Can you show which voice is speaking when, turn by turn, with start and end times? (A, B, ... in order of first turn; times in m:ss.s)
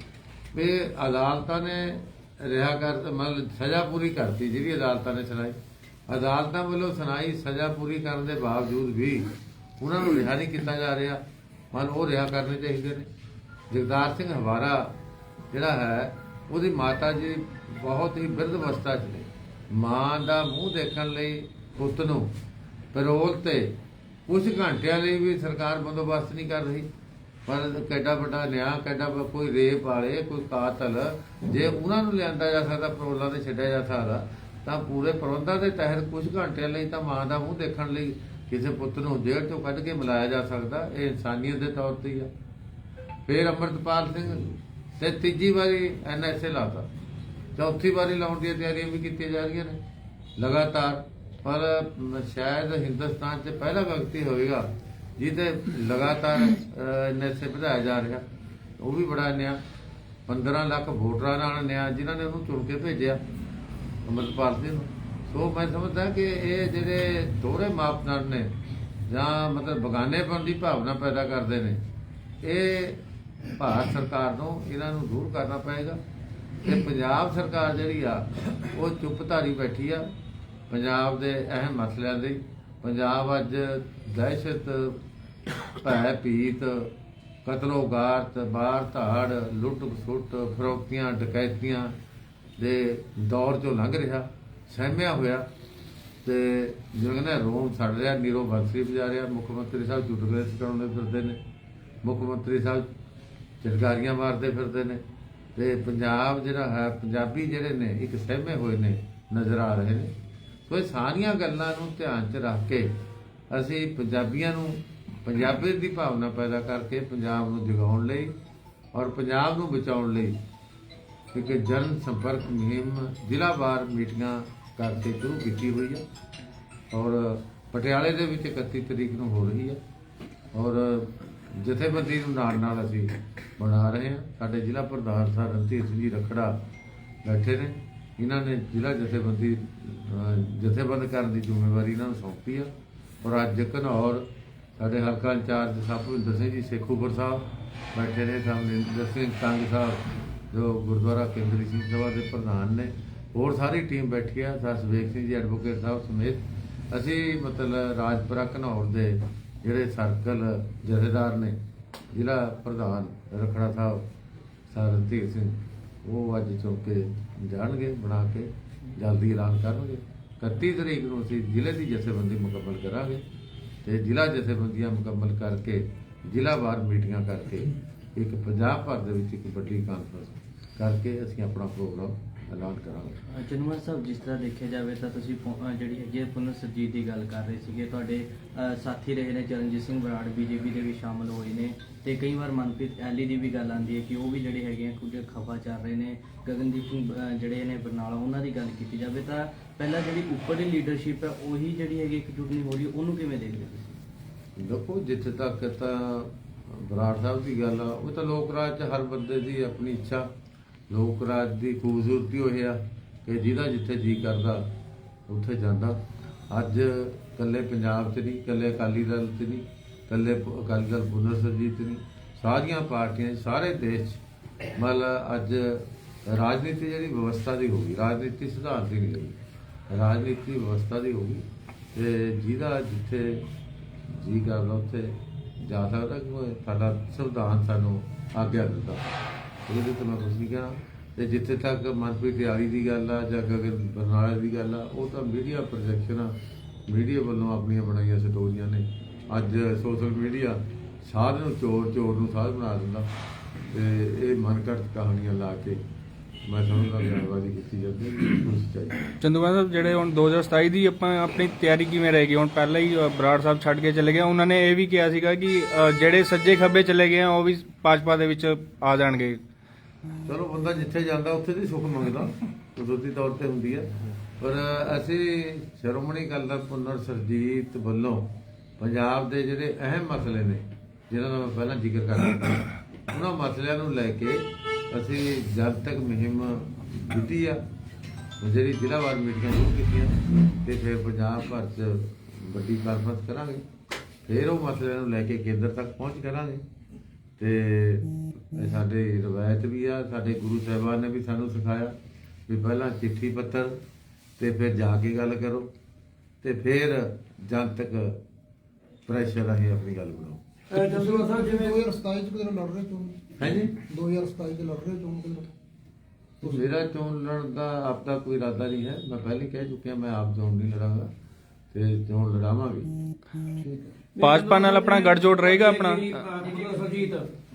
0:00.5-0:05.6 A
0:06.1-0:13.1 A
0:13.7-0:15.0 A
0:15.5-0:22.3 A
0:22.9-0:26.9 A
0:27.5-0:42.3 A
0:43.3-0:46.9 A
0:47.6-0:49.8 A
0:50.4-0:54.7 A
0:55.2-0:58.2 A
0:58.8-0:59.6 A
1:00.3-1:03.2 A
1:04.0-1:08.5 A
1:09.1-1:11.8 A
1:12.4-1:13.0 A
1:13.6-1:16.0 A
1:16.6-1:20.1 A
1:20.7-1:25.0 A
1:25.8-1:26.9 A
1:27.4-1:31.9 A
1:32.6-1:35.5 A
1:36.2-1:41.4 A
1:42.0-1:42.9 A
1:43.6-1:45.0 A
1:45.6-1:50.1 A
1:50.7-1:52.9 A
1:53.5-1:58.3 A
1:58.9-2:00.4 A
2:01.3-2:06.0 A
2:06.9-2:09.8 A
2:10.5-2:16.6 A
2:17.2-2:22.7 A
2:23.2-2:41.6 A
2:42.1-2:44.0 A
2:44.7-2:53.2 A
2:53.8-3:03.2 A
3:03.3-3:24.0 B
3:24.6-3:30.3 A
3:30.9-3:34.7 A
3:35.3-3:44.2 A
3:44.8-3:49.4 A
3:49.9-3:53.4 A
3:54.1-3:59.0 A
3:59.7-4:06.3 A
4:06.9-4:13.1 A
4:13.7-4:15.8 A
4:16.4-4:19.0 A
4:19.2-4:29.4 C
4:30.2-4:47.6 A
4:48.4-4:53.6 A
4:54.3-4:56.6 A
4:57.4-5:01.9 A
5:02.5-5:03.8 A
5:04.4-5:05.7 A
5:06.4-5:08.2 A
5:09.1-5:10.4 A
5:10.7-5:11.8 D
5:10.7-5:13.3 E
5:13.4-5:13.7 A
5:13.8-5:15.5 E
5:16.4-5:16.7 E
5:16.4-5:21.1 A
5:21.7-5:22.9 A
5:23.6-5:23.9 E
5:24.2-5:27.3 D
5:24.2-5:26.2 C